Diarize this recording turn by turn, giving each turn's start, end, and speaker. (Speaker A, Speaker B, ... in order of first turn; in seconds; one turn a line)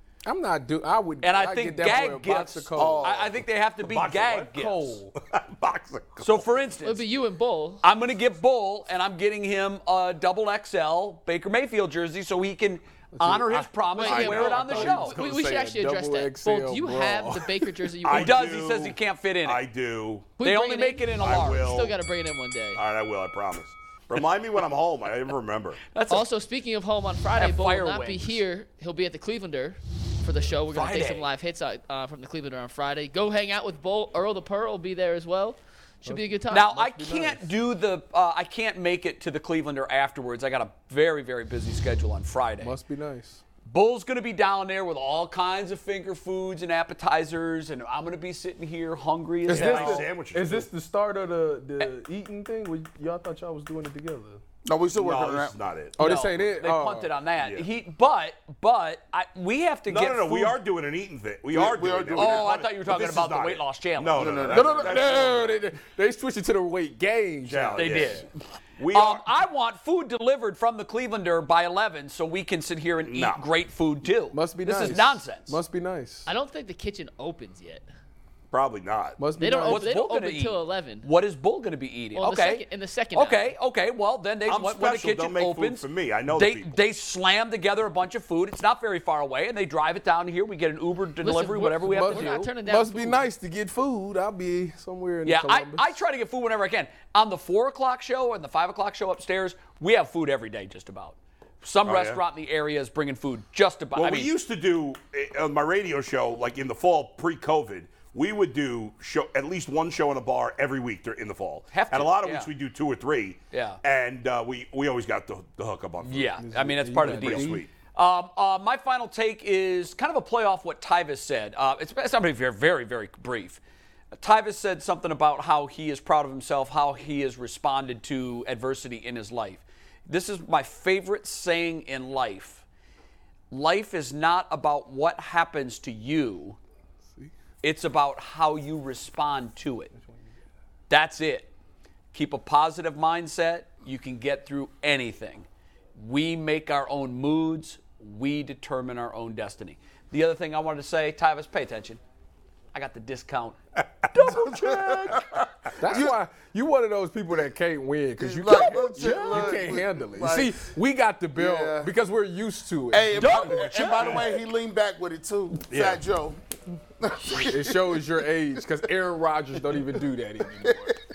Speaker A: 0.2-3.2
Speaker B: 1.2-5.0
Speaker C: 2.7-3.3
Speaker D: 3.8-4.6
Speaker A: 4.5-5.1
Speaker D: 5.2-6.5
Speaker B: 6.2-7.0
Speaker E: 6.8-7.8
Speaker B: 7.8-15.2
Speaker A: 13.2-17.9
Speaker E: 13.9-18.4
Speaker D: 14.0-15.3
Speaker D: 18.0-20.3
Speaker B: 18.1-19.6
Speaker E: 20.4-22.8
Speaker B: 20.4-21.9
Speaker D: 21.1-22.0
Speaker D: 22.7-25.8
Speaker B: 25.9-26.3
Speaker E: 26.1-36.7
Speaker B: 27.3-28.4
Speaker B: 30.7-31.3
Speaker A: 36.0-37.5
Speaker B: 36.5-42.8
Speaker A: 42.6-43.4
Speaker B: 43.7-50.0
Speaker A: 49.5-54.4
Speaker D: 49.5-50.7
Speaker C: 54.6-55.6
Speaker D: 54.9-56.0
Speaker A: 56.0-57.1
Speaker B: 56.0-60.5
Speaker D: 57.4-57.7
Speaker D: 59.9-65.6
Speaker C: 61.5-62.5
Speaker B: 62.1-64.3
Speaker C: 64.2-65.2
Speaker A: 64.5-68.3
Speaker D: 67.4-69.3
Speaker B: 67.8-68.3
Speaker B: 68.9-75.6
Speaker D: 73.0-73.5
Speaker A: 74.3-76.3
Speaker E: 76.2-77.8
Speaker D: 78.5-79.3
Speaker A: 79.2-79.8
Speaker E: 79.4-81.1
Speaker B: 79.6-92.5
Speaker E: 82.1-83.5
Speaker D: 84.5-86.8
Speaker E: 91.2-93.3
Speaker A: 91.7-96.0
Speaker B: 95.2-104.3
Speaker D: 101.8-102.2
Speaker D: 103.9-116.4
Speaker B: 111.7-112.5
Speaker B: 113.5-113.8
Speaker B: 116.0-123.6
Speaker A: 116.4-117.6
Speaker D: 117.0-117.7
Speaker B: 124.1-132.6
Speaker B: 133.5-136.6
Speaker B: 137.6-139.9
Speaker B: 140.9-141.5
Speaker B: 142.1-152.0
Speaker B: 152.7-154.7
Speaker A: 154.2-155.2
Speaker C: 154.5-156.1
Speaker A: 155.8-163.7
Speaker C: 158.2-160.6
Speaker B: 158.8-159.2
Speaker C: 161.3-161.9
Speaker C: 162.9-166.4
Speaker B: 163.2-164.1
Speaker D: 163.7-164.3
Speaker D: 165.7-166.0
Speaker C: 167.0-168.0
Speaker A: 167.2-171.0
Speaker C: 170.6-170.9